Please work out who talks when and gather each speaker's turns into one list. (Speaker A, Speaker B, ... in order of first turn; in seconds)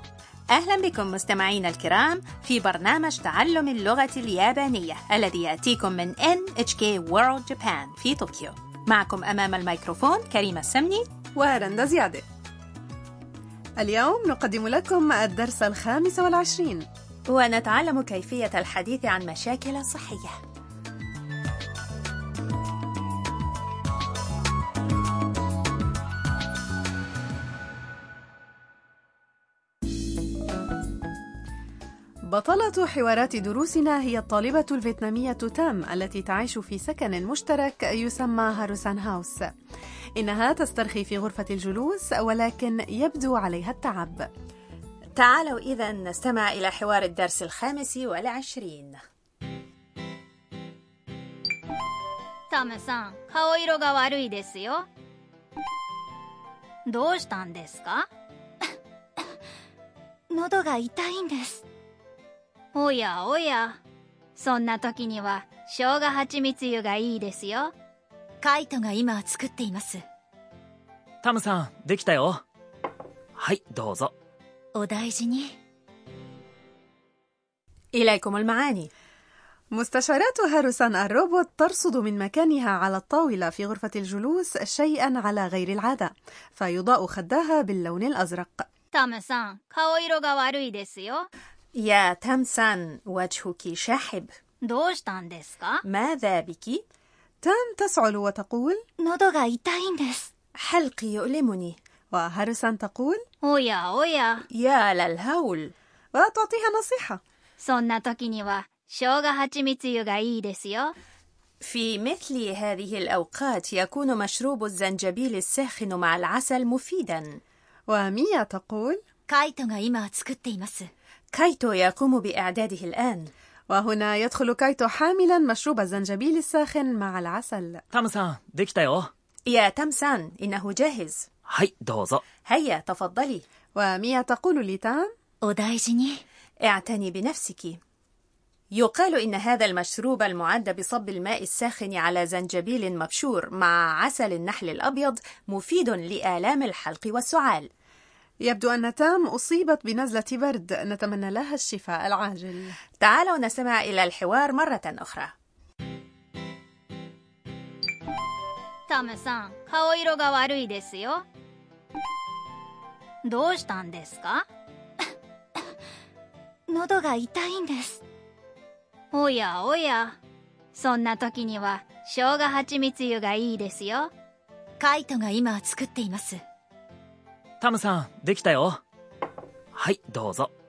Speaker A: 0.5-11.1, 17.3-20.4, 45.1-49.0, 77.9-78.9, 91.8-94.4, 95.8-96.8, 100.6-101.8, 104.5-105.7, 111.6-117.4, 121.3-123.3, 129.5-131.3, 132.4-133.4, 136.6-137.8, 138.7-147.7, 153.0-155.3
Speaker B: 11.4-12.2, 13.8-16.8, 32.3-39.5, 40.2-44.3, 79.7-88.7, 97.4-98.8, 102.1-103.2, 106.1-107.2, 117.9-119.0, 123.7-127.8, 133.8-135.1, 148.4-152.8
Speaker C: 52.5-54.9, 56.9-58.1, 62.7-63.8, 64.4-67.7, 88.9-91.3, 94.7-95.8, 99.0-100.2, 103.4-104.4, 107.6-110.9, 158.9-161.2, 163.3-164.4, 169.1-170.2, 170.7-174.1
Speaker D: 60.3-61.6, 68.4-70.0, 74.8-75.5, 119.3-120.9, 135.4-136.2, 166.7-168.0, 174.8-176.4
Speaker E: 71.2-72.4, 73.4-74.1, 127.9-129.1, 131.5-132.2, 177.6-178.8, 179.8-180.5